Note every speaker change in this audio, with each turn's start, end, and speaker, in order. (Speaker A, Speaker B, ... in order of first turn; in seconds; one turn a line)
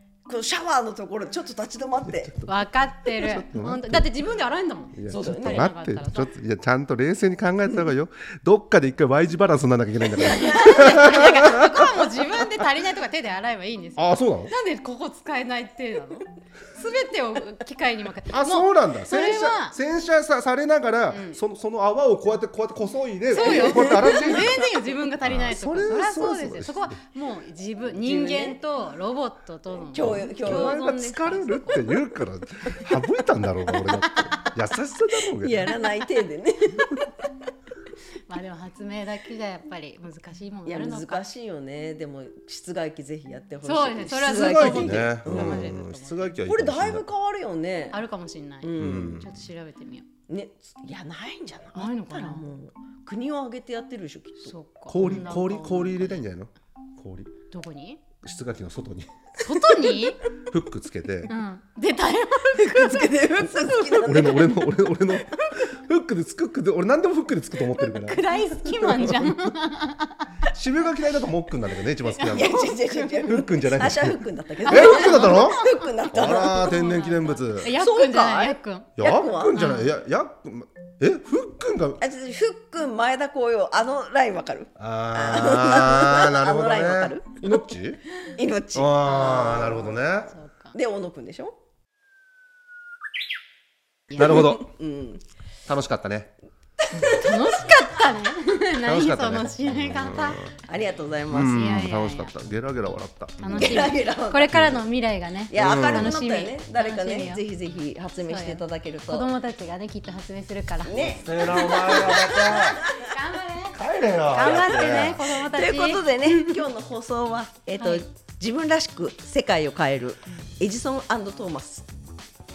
Speaker A: 0.3-2.4
Speaker B: 2.0-2.5
Speaker C: 2.4-6.3
Speaker B: 3.1-4.1
Speaker B: 5.0-12.4
Speaker A: 5.1-5.7
Speaker C: 10.1-19.8
Speaker B: 14.0-14.5
Speaker B: 18.3-26.9
Speaker C: 21.1-21.4
Speaker C: 23.3-32.0
Speaker A: 23.5-24.2
Speaker A: 27.9-28.6
Speaker A: 29.8-31.1
Speaker B: 30.0-35.7
Speaker C: 33.7-34.5
Speaker A: 35.4-37.1
Speaker C: 38.3-41.2
Speaker A: 40.6-45.7
Speaker C: 43.6-46.4
Speaker B: 44.2-47.0
Speaker A: 46.4-48.0
Speaker C: 47.9-50.0
Speaker A: 48.6-49.2
Speaker B: 48.7-49.3
Speaker A: 50.3-55.4
Speaker C: 51.7-52.4
Speaker C: 54.4-56.2
Speaker B: 54.9-57.3
Speaker C: 57.5-58.0
Speaker B: 58.2-59.1
Speaker C: 59.4-60.3
Speaker B: 60.3-61.3
Speaker C: 61.3-63.4
Speaker A: 62.5-65.2
Speaker B: 63.6-69.5
Speaker C: 67.6-70.4
Speaker B: 70.5-75.6
Speaker C: 72.0-73.9
Speaker A: 72.3-76.8
Speaker C: 74.6-78.9
Speaker B: 76.1-77.8
Speaker A: 77.7-79.6
Speaker B: 79.0-82.0
Speaker C: 79.5-79.9
Speaker A: 82.0-87.4
Speaker B: 84.8-88.0
Speaker A: 88.3-90.0
Speaker B: 88.7-90.3
Speaker C: 89.1-90.7
Speaker A: 90.7-91.5
Speaker C: 94.1-94.5
Speaker B: 94.1-94.7
Speaker A: 94.3-95.2
Speaker B: 95.7-96.3
Speaker A: 96.8-97.7
Speaker C: 96.9-100.5
Speaker B: 98.8-100.5
Speaker A: 100.6-101.6
Speaker B: 101.3-103.9
Speaker C: 101.4-102.3
Speaker C: 103.4-107.4
Speaker A: 103.5-104.8
Speaker B: 104.5-104.8
Speaker A: 105.5-109.3
Speaker B: 105.5-106.1
Speaker C: 108.2-116.6
Speaker A: 110.8-113.0
Speaker B: 110.9-112.8
Speaker B: 113.7-115.2
Speaker A: 114.4-121.9
Speaker C: 117.8-118.0